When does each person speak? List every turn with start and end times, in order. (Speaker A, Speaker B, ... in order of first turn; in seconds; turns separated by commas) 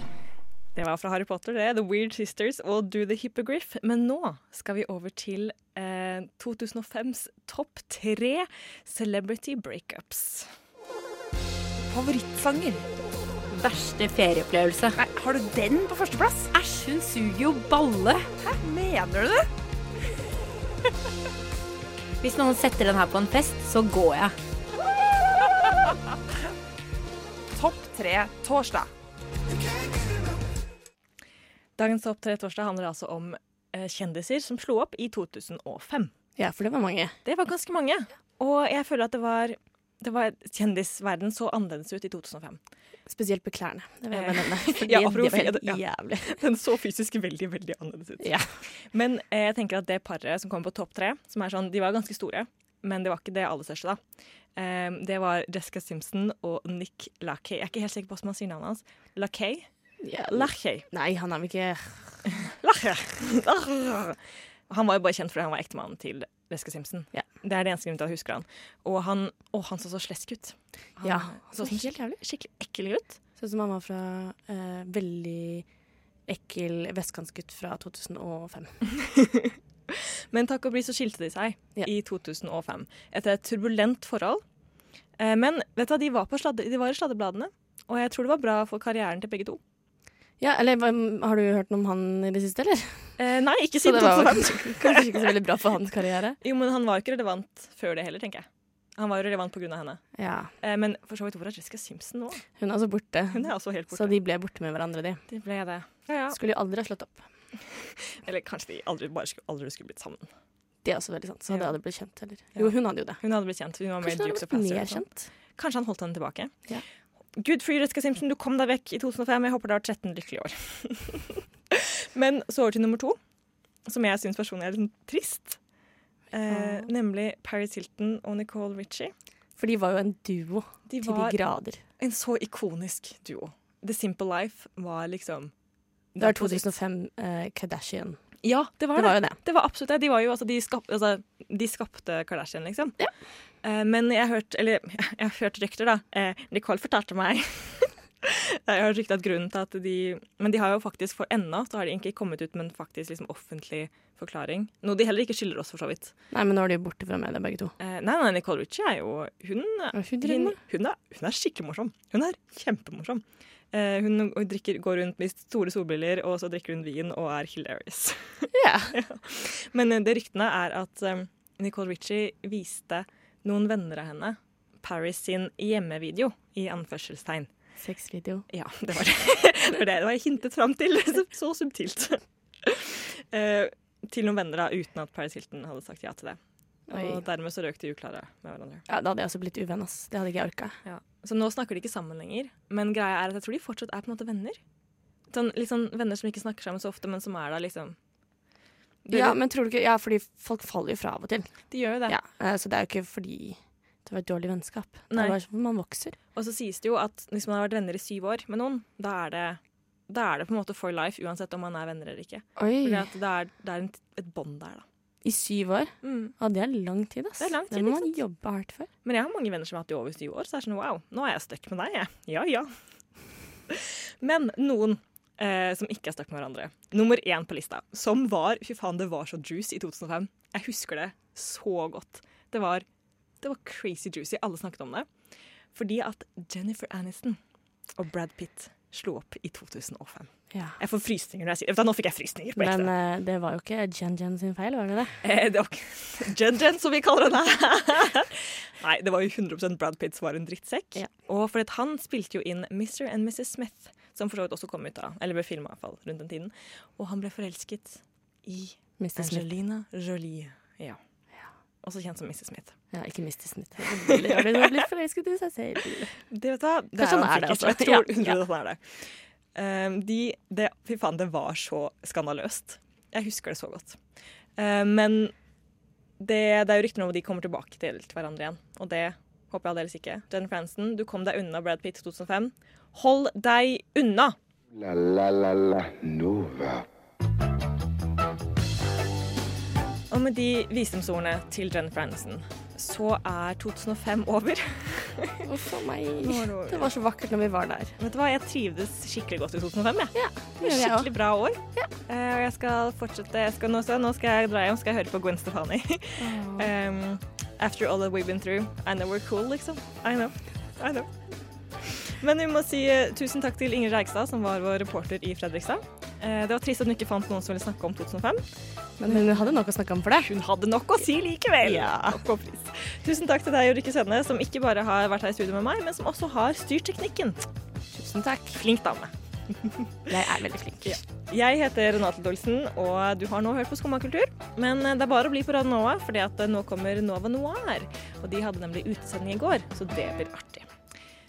Speaker A: 0.8-10.5, Speaker B: 11.9-12.9, Speaker B: 13.5-19.5, Speaker B: 22.2-24.3, Speaker B: 27.5-28.9, Speaker A: 31.8-36.1, Speaker C: 36.4-37.1, Speaker A: 37.2-42.6, Speaker C: 43.1-46.4, Speaker A: 44.1-54.0, Speaker C: 48.2-48.5, Speaker A: 54.6-59.7, Speaker C: 60.0-62.3, Speaker A: 60.3-60.9, Speaker A: 62.4-73.2, Speaker C: 71.0-72.2, Speaker C: 73.4-75.7, Speaker C: 76.3-78.8, Speaker A: 79.0-84.4, Speaker A: 85.2-89.6, Speaker C: 90.4-93.1, Speaker A: 93.2-95.3, Speaker C: 93.8-96.4, Speaker A: 96.4-98.5, Speaker A: 99.0-100.0, Speaker C: 100.2-100.5, Speaker A: 100.6-102.4, Speaker C: 102.6-105.2, Speaker A: 103.3-104.2, Speaker A: 105.3-106.4, Speaker C: 106.3-107.2, Speaker A: 108.0-110.3, Speaker C: 110.8-113.2, Speaker A: 112.5-116.5, Speaker C: 114.0-115.3, Speaker A: 117.4-123.2, Speaker A: 123.9-125.6, Speaker A: 126.3-129.1, Speaker C: 126.5-126.9, Speaker C: 129.6-131.8, Speaker A: 130.9-131.4, Speaker A: 132.0-135.5, Speaker A: 136.2-136.7, Speaker C: 136.2-138.2, Speaker A: 138.4-143.0, Speaker C: 138.9-139.4, Speaker A: 143.6-156.1, Speaker C: 156.3-157.7, Speaker A: 157.8-177.5, Speaker C: 159.9-160.6, Speaker C: 168.5-169.0, Speaker C: 177.8-178.5, Speaker A: 178.5-186.4, Speaker C: 186.9-187.2, Speaker A: 186.9-188.8, Speaker C: 188.9-190.8, Speaker A: 190.8-194.6, Speaker A: 195.3-198.0, Speaker A: 199.1-199.4, Speaker C: 199.1-206.2, Speaker A: 201.7-202.2, Speaker A: 205.1-205.4, Speaker A: 206.3-214.8, Speaker C: 212.6-213.1, Speaker C: 215.2-218.9, Speaker A: 216.0-216.3, Speaker A: 217.4-218.2, Speaker A: 219.1-222.7, Speaker A: 223.7-232.8, Speaker A: 233.4-235.1, Speaker A: 235.8-237.4, Speaker A: 238.0-242.9, Speaker C: 240.5-240.8, Speaker C: 242.6-245.2, Speaker A: 245.2-261.0, Speaker C: 259.0-259.5, Speaker A: 261.8-262.8, Speaker C: 262.9-266.1, Speaker A: 264.1-264.9, Speaker A: 266.3-268.8, Speaker C: 267.0-268.4, Speaker A: 269.6-274.0, Speaker A: 274.6-275.3, Speaker A: 276.2-284.4, Speaker D: 284.7-286.9, Speaker A: 290.1-295.5, Speaker C: 295.4-297.9, Speaker A: 296.2-296.9, Speaker A: 298.0-311.1, Speaker C: 300.1-301.1, Speaker C: 306.2-306.7, Speaker A: 311.8-318.4, Speaker C: 319.0-320.3, Speaker A: 319.0-319.6, Speaker A: 320.2-327.4, Speaker C: 321.6-322.2, Speaker C: 327.9-328.6, Speaker A: 328.5-329.9, Speaker C: 330.1-331.0, Speaker A: 330.8-340.7